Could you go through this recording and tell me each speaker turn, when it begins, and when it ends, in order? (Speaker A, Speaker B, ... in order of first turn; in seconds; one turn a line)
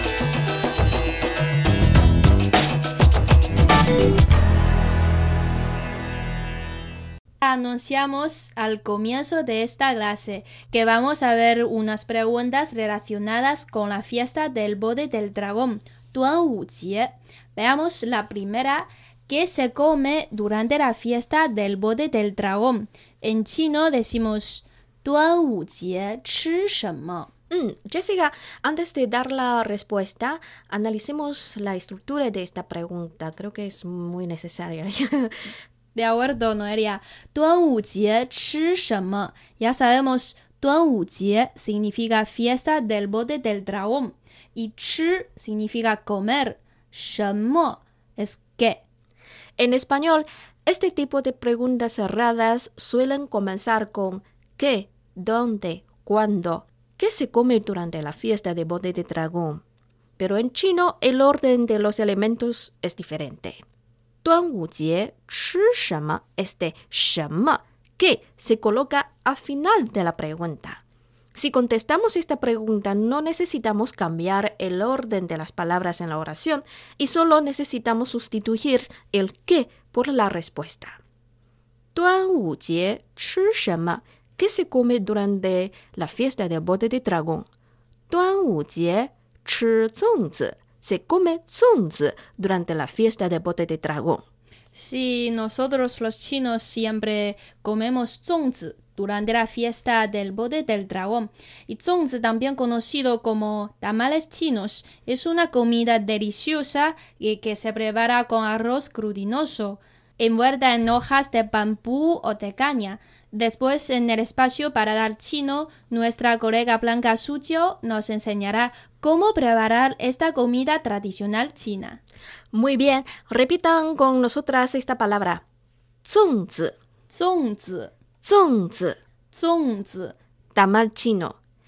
Speaker A: 7.4-27.3
Speaker B: 27.5-35.4
Speaker A: 35.9-48.8
Speaker B: 49.6-59.6
Speaker B: 60.2-63.6
Speaker B: 64.2-70.8
Speaker B: 71.3-81.0
Speaker B: 81.9-87.5
Speaker B: 88.1-94.2
Speaker A: 94.7-122.0
Speaker B: 122.5-125.4
Speaker B: 126.0-126.8
Speaker A: 127.1-127.9
Speaker B: 128.2-129.0
Speaker A: 129.3-130.1
Speaker B: 130.5-131.4